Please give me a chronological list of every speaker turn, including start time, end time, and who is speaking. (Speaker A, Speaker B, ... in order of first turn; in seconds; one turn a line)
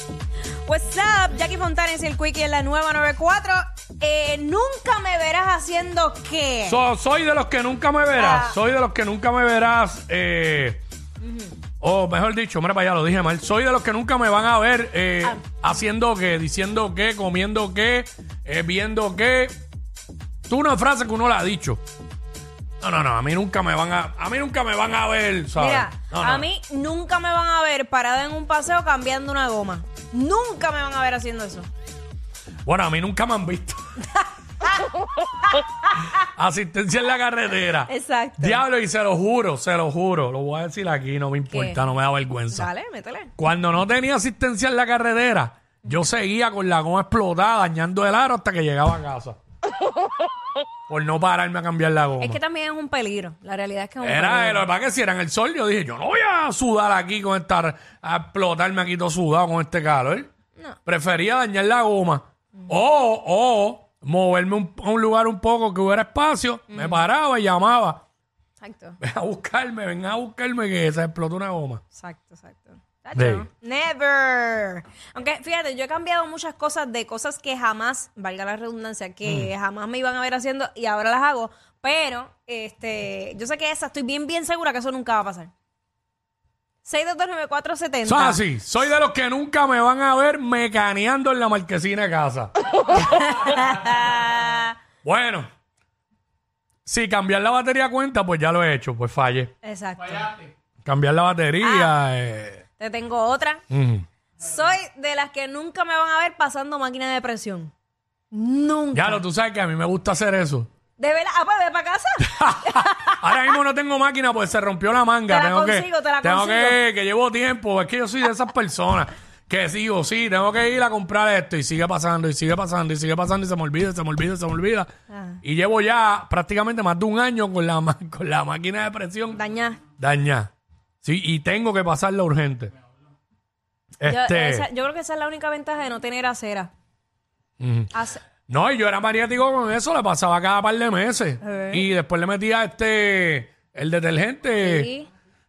Speaker A: 0.7-6.8
Speaker B: 6.7-10.8
Speaker A: 8.1-8.6
Speaker A: 11.2-11.5
Speaker B: 11.8-19.5
Speaker B: 20.5-21.8
Speaker B: 22.8-26.4
Speaker A: 25.6-31.7
Speaker B: 32.6-33.8
Speaker A: 34.2-34.7
Speaker B: 36.2-42.7
Speaker A: 37.9-38.6
Speaker A: 41.5-41.8
Speaker A: 42.5-43.3
Speaker B: 43.4-49.4
Speaker B: 50.9-52.4
Speaker A: 52.2-54.7
Speaker B: 54.0-60.3
Speaker B: 60.9-68.0
Speaker A: 66.7-67.0
Speaker A: 68.6-69.0
Speaker B: 69.0-71.8
Speaker A: 71.9-85.5
Speaker B: 73.2-73.5
Speaker B: 79.2-79.5
Speaker A: 86.8-88.4
Speaker B: 88.0-92.5
Speaker A: 92.9-94.7
Speaker B: 95.0-95.5
Speaker B: 96.8-99.5
Speaker A: 99.6-100.4
Speaker B: 100.8-102.6
Speaker A: 101.6-101.9
Speaker A: 102.8-103.6
Speaker B: 103.7-104.0
Speaker A: 104.4-107.7
Speaker A: 108.3-109.2
Speaker B: 108.9-110.7
Speaker A: 111.0-113.3
Speaker B: 112.3-124.9
Speaker A: 115.3-116.8
Speaker A: 125.1-125.4
Speaker B: 125.4-129.4
Speaker A: 129.3-129.8
Speaker B: 130.0-130.5
Speaker B: 131.0-132.7
Speaker B: 134.0-134.6
Speaker A: 134.0-136.7
Speaker B: 137.6-137.9
Speaker A: 137.9-138.2
Speaker B: 138.5-144.9
Speaker A: 141.4-141.8
Speaker A: 144.5-145.1